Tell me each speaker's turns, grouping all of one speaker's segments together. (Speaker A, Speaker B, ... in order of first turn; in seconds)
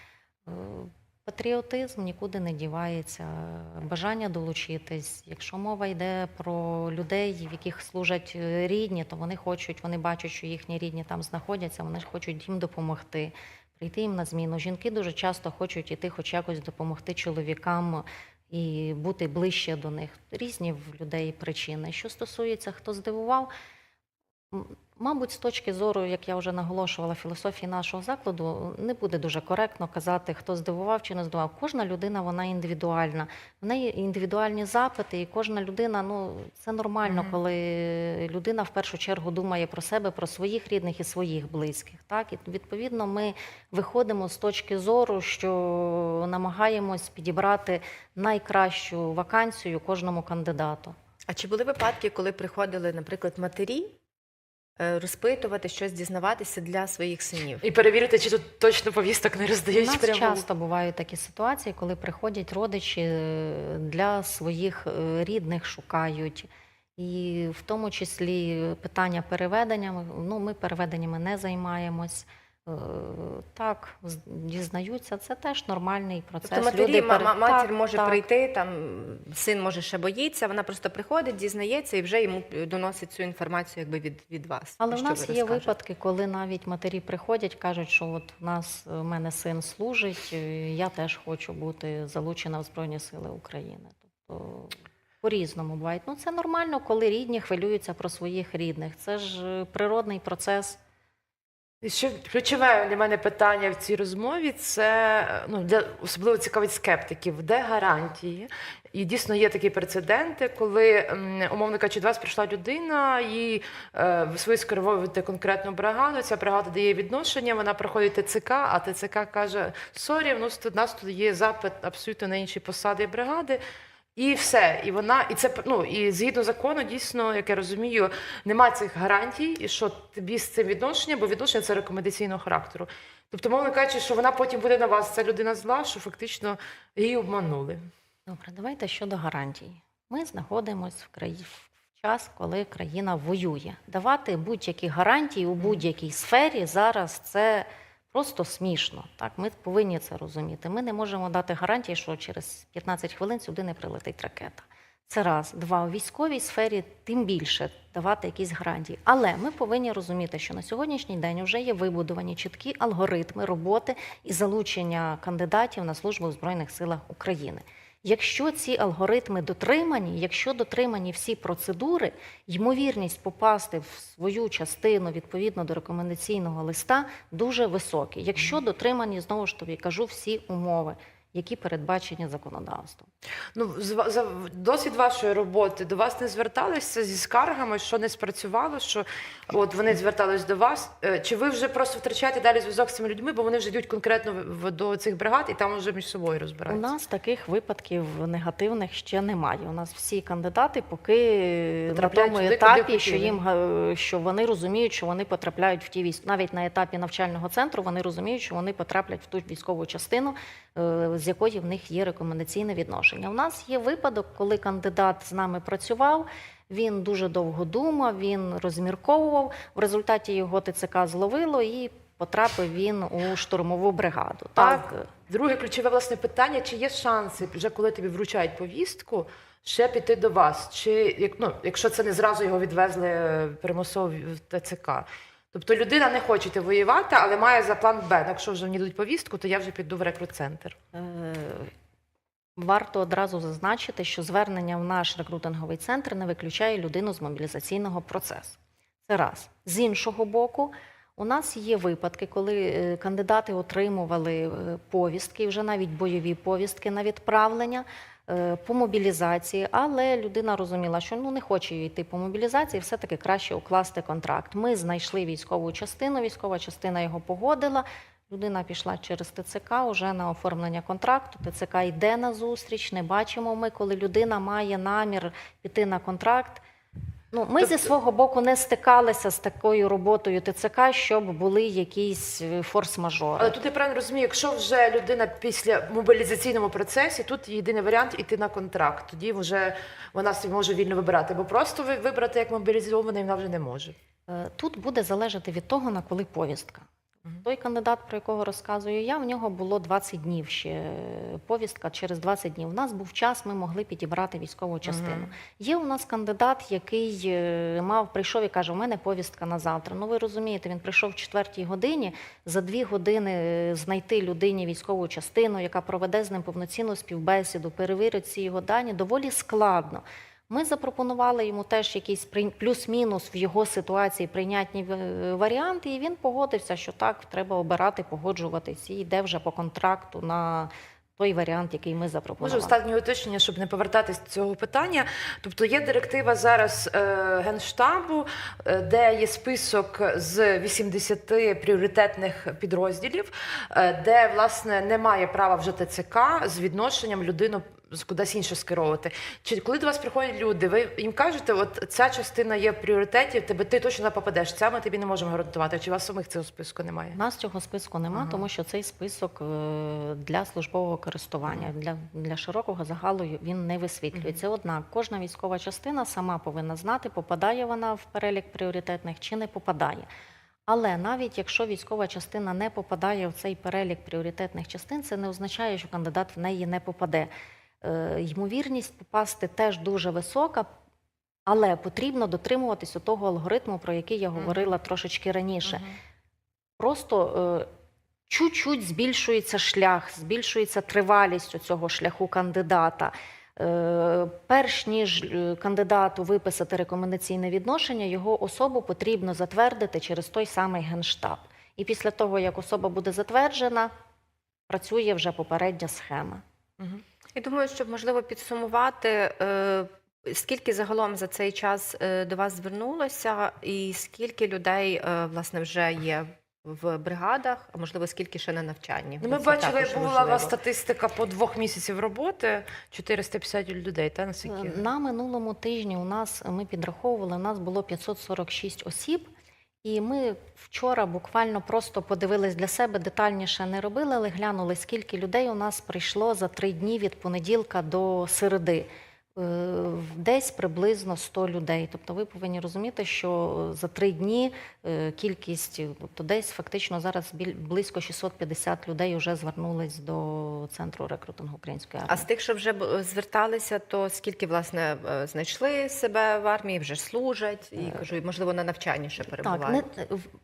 Speaker A: 0.5-23.5, 24.5-51.0, 59.7-78.3, 84.8-100.8, 138.3-183.1, 196.7-225.1, 240.9-241.7, 242.6-276.6, 277.3-283.6, 294.3-296.9, 297.4-332.8, 357.1-370.1, 370.7-377.3, 377.8-380.7, 381.5-385.8, 386.8-387.7, 388.3-403.9, 404.7-406.4, 424.5-429.3, 429.8-452.3, 459.4-460.3
Speaker B: 37.1-37.4, 57.6-60.4, 101.8-123.6, 124.2-137.9, 183.5-196.9, 201.9-203.4, 224.6-240.8, 283.4-293.9, 304.9-305.3, 332.4-357.2, 358.1-358.4, 384.4-384.7, 385.7-385.9, 419.2-424.8
Speaker C: 51.3-54.0, 54.8-57.6, 76.5-85.7, 407.3-420.5, 452.1-459.9